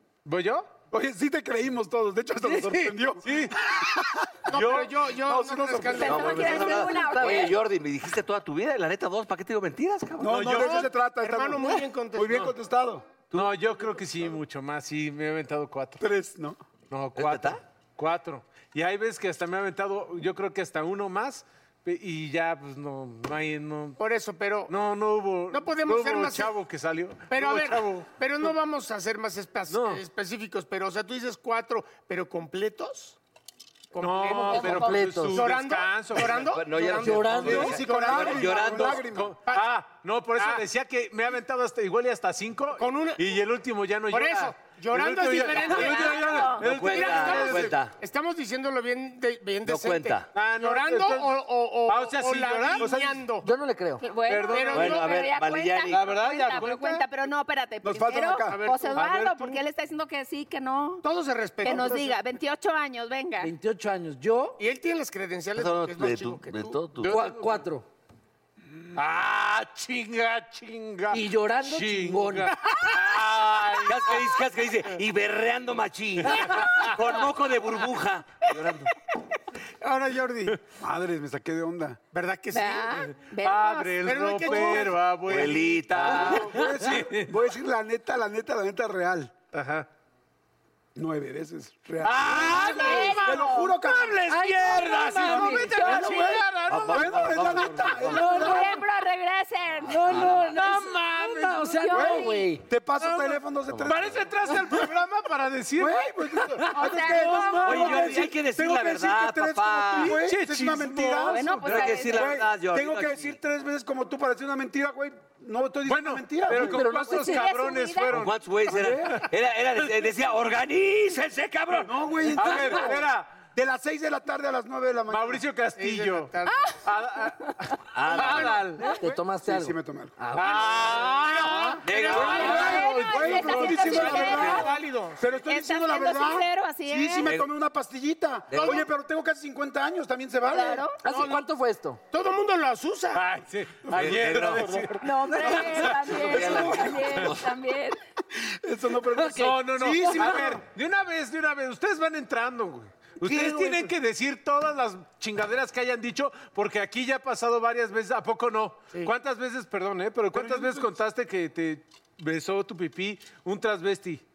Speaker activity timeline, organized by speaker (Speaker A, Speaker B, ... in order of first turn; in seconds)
Speaker A: 0.2-0.7, 3.2-3.6, 4.5-5.0, 10.4-10.7, 13.3-16.0, 16.9-24.0, 24.7-28.1, 29.7-30.0, 34.0-36.5, 37.2-37.8, 39.0-47.8, 50.3-52.9, 54.3-54.9, 55.9-57.0, 59.0-59.6, 67.0-67.6, 68.9-74.3, 76.2-77.0, 83.4-87.3, 89.5-89.9, 92.0-98.4, 100.1-101.9, 103.0-108.3, 109.9-111.9, 115.8-119.2, 122.3-123.4, 125.1-126.3, 126.8-128.9, 130.3-134.0, 143.1-146.2, 149.2-164.2
Speaker B: 0.9-4.5, 5.1-6.5, 10.2-13.1, 16.0-16.6, 37.4-39.4, 52.8-53.2, 57.8-58.6, 80.7-82.0, 86.0-89.3, 91.0-94.3, 96.9-98.8, 101.9-104.2, 105.8-116.8, 118.7-119.2, 121.8-125.4, 129.0-130.1, 131.3-140.9, 143.8-147.2, 148.4-150.6, 153.2-153.9, 160.3-160.9
Speaker C: 4.5-6.7, 10.5-12.5, 24.0-24.7, 25.5-26.5, 27.3-33.2, 33.9-38.9, 39.4-39.7, 40.4-40.6, 42.8-43.2, 44.1-53.5, 54.5-55.2, 58.5-59.1, 61.0-62.2, 64.6-66.8, 79.8-80.6, 82.1-83.0, 84.0-85.0, 125.8-126.7, 130.4-131.1, 131.8-132.8, 133.8-135.2, 138.5-138.8, 141.0-141.4, 142.1-143.2
Speaker D: 5.9-7.5, 45.5-46.6, 54.0-61.0, 61.6-63.5, 82.5-84.5, 92.4-93.7, 95.3-96.4, 98.1-100.1, 101.8-102.5, 106.7-108.0, 111.2-112.4, 117.0-118.1, 126.5-126.8, 132.1-134.8, 135.4-137.3, 140.5-141.0, 145.0-148.0
Speaker E: 6.0-10.8, 17.1-17.6, 36.3-39.0, 46.6-48.0, 49.6-50.3, 54.7-56.1, 65.5-67.1, 73.8-78.9, 85.2-86.5, 96.7-98.1, 103.7-104.2, 107.6-110.2, 111.6-113.4, 118.1-122.5, 127.9-128.7, 131.8-132.7, 134.2-134.7, 137.2-137.5, 138.5-138.8, 143.9-144.7, 146.1-147.5
Speaker F: 7.0-7.5, 34.2-35.5, 37.0-37.8, 53.4-54.0, 63.4-64.6, 67.0-67.8, 71.1-72.5, 94.3-96.0, 98.0-98.8, 99.8-102.6, 116.5-117.5, 128.9-131.3, 141.0-142.0